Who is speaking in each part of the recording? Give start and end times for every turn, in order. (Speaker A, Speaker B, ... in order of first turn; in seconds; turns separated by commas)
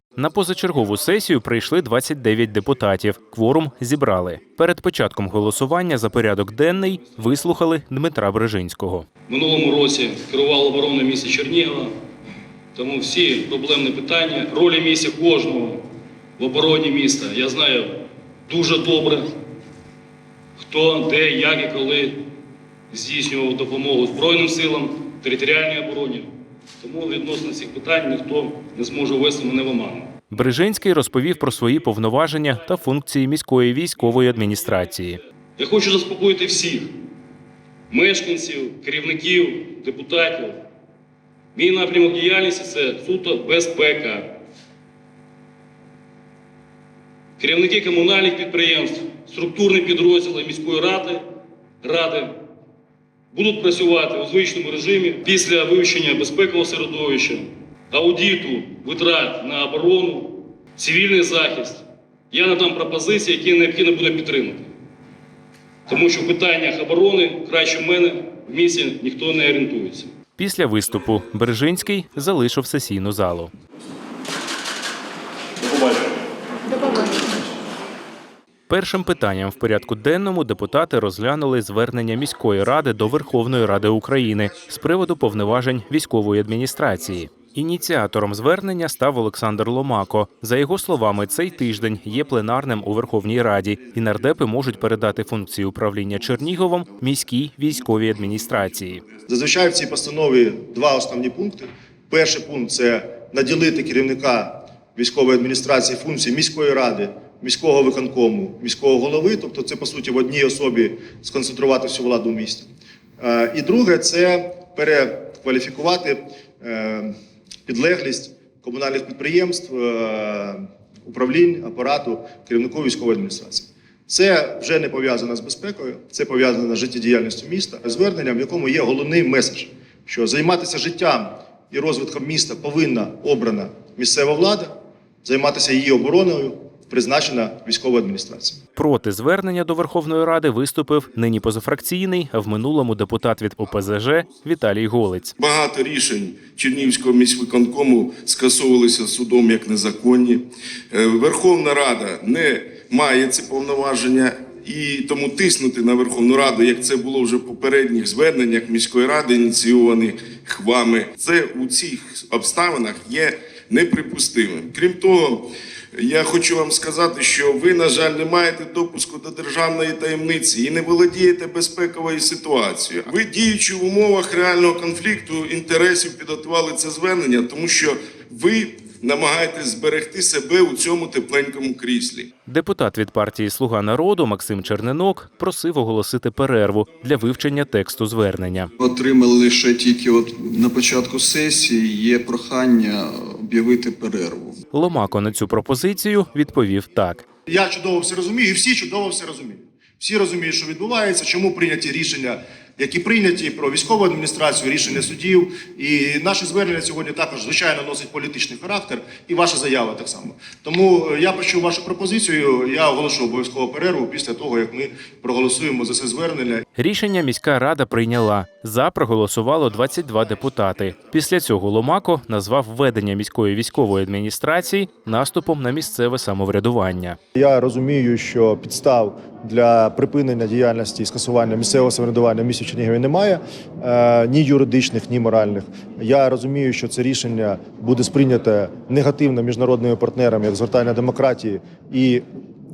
Speaker A: 0.2-9.1, Speaker B: 9.3-11.9, Speaker B: 12.7-15.8, Speaker B: 16.4-19.3, Speaker B: 20.6-22.2, Speaker B: 22.9-26.3, Speaker B: 26.8-30.1, Speaker A: 30.3-35.2, Speaker B: 35.6-36.9, Speaker B: 37.9-40.6, Speaker B: 41.5-44.3, Speaker B: 47.4-51.2, Speaker B: 51.8-52.4, Speaker B: 53.3-64.7, Speaker B: 65.9-70.1, Speaker A: 70.4-73.5, Speaker A: 78.7-99.0, Speaker C: 99.3-117.1, Speaker C: 117.7-134.7, Speaker C: 135.2-138.6, Speaker A: 138.8-145.3, Speaker D: 145.4-182.3, Speaker A: 182.4-188.7, Speaker E: 188.8-194.6, Speaker A: 194.7-197.2, Speaker C: 197.5-216.6, Speaker A: 216.8-227.2, Speaker C: 227.3-242.2